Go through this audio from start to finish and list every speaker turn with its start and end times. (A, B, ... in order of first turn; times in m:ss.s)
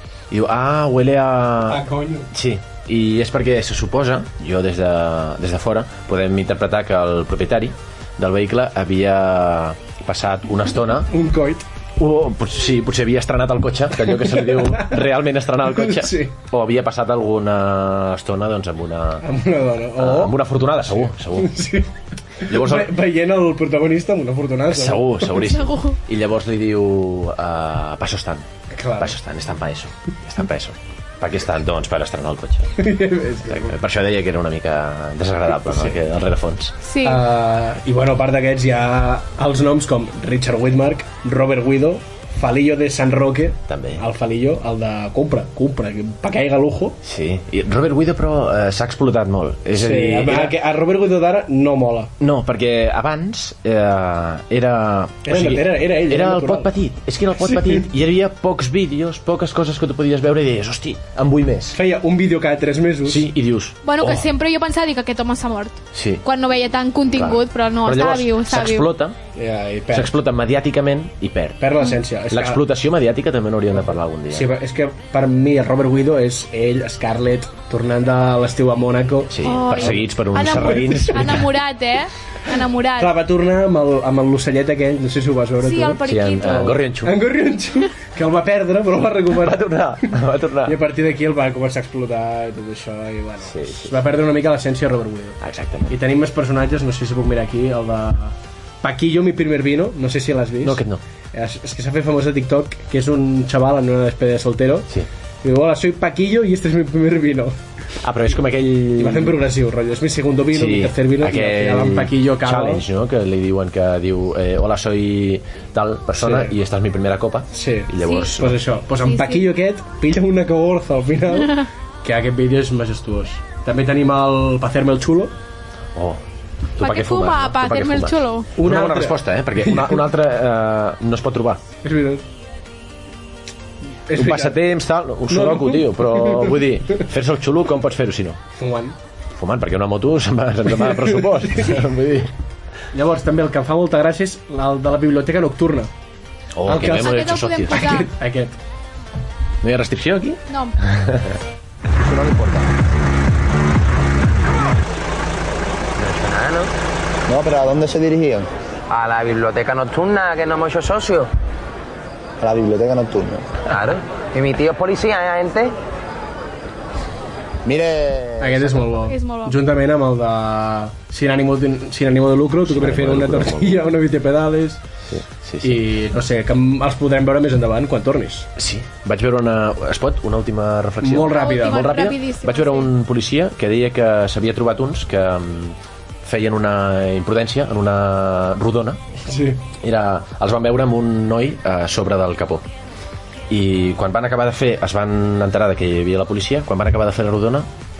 0:00.3-0:11.1 A
0:01.7-0:02.3 B
0:11.1-0:11.6 B
0:12.0-0:19.2 A
0:14.1-0:15.1 B
0:15.6-0:16.3 B
0:19.2-0:20.3 B
0:20.0-0:21.6 A
0:21.3-0:21.9 B
0:22.4-0:25.4 B
0:22.5-0:22.9 A
0:24.7-0:28.5 A
0:25.4-0:26.0 C
0:28.7-0:29.2 B
0:29.0-0:32.8 A
0:32.8-0:33.7 B
0:33.5-0:36.7 A
0:35.7-0:35.9 B
0:36.8-0:37.2 C
0:37.0-0:47.0 B
0:43.7-0:44.0 A
0:47.0-0:50.5 A
0:49.7-0:52.1 B
0:52.2-1:01.8 A
0:55.2-0:56.7 B
0:57.4-0:57.9 B
1:01.7-1:03.3 B
1:03.0-1:04.3 A
1:03.8-1:08.9 C
1:05.9-1:06.2 A
1:07.1-1:09.2 A
1:09.3-1:10.1 B
1:09.9-1:11.6 A
1:11.6-1:12.6 B
1:12.3-1:14.5 A
1:14.3-1:21.4 B
1:19.3-1:21.5 A
1:19.4-1:23.2 C
1:23.0-1:35.4 B
1:25.6-1:26.8 C
1:26.0-1:27.2 A
1:29.4-1:30.8 A
1:33.5-1:34.0 A
1:35.4-1:35.9 A
1:35.9-1:40.8 B
1:40.6-1:41.0 A
1:41.3-1:44.9 B
1:45.4-1:47.6 B
1:48.0-1:49.4 A
1:49.0-1:52.8 B
1:50.5-1:58.6 A
1:56.2-1:56.5 B
1:57.5-2:05.3 B
1:58.0-1:58.3 C
1:59.0-1:59.5 C
2:05.9-2:06.2 A
2:06.8-2:11.6 A
2:06.8-2:08.5 C
2:08.6-2:10.0 B
2:11.8-2:12.2 B
2:14.1-2:14.6 B
2:14.2-2:18.4 A
2:15.3-2:16.6 B
2:18.6-2:19.0 B
2:19.4-2:22.3 A
2:20.9-2:21.7 B
2:22.9-2:25.9 B
2:26.5-2:28.0 A
2:26.6-2:28.6 B
2:26.7-2:28.1 C
2:29.6-2:31.3 A
2:30.5-2:30.8 C
2:32.0-2:32.7 D
2:36.0-2:36.7 E
2:37.3-2:38.5 D
2:38.9-2:41.3 E
2:42.4-2:43.4 D
2:43.7-2:45.7 E
2:47.6-2:48.7 D
2:48.4-2:54.8 B
2:49.0-2:49.6 C
2:52.7-2:53.8 A
2:55.1-2:55.8 A
2:55.6-2:58.5 B
2:58.6-3:09.0 A
3:01.0-3:01.9 B
3:01.3-3:02.9 C
3:09.2-3:09.6 B
3:09.8-3:12.6 A
3:13.5-3:17.7 A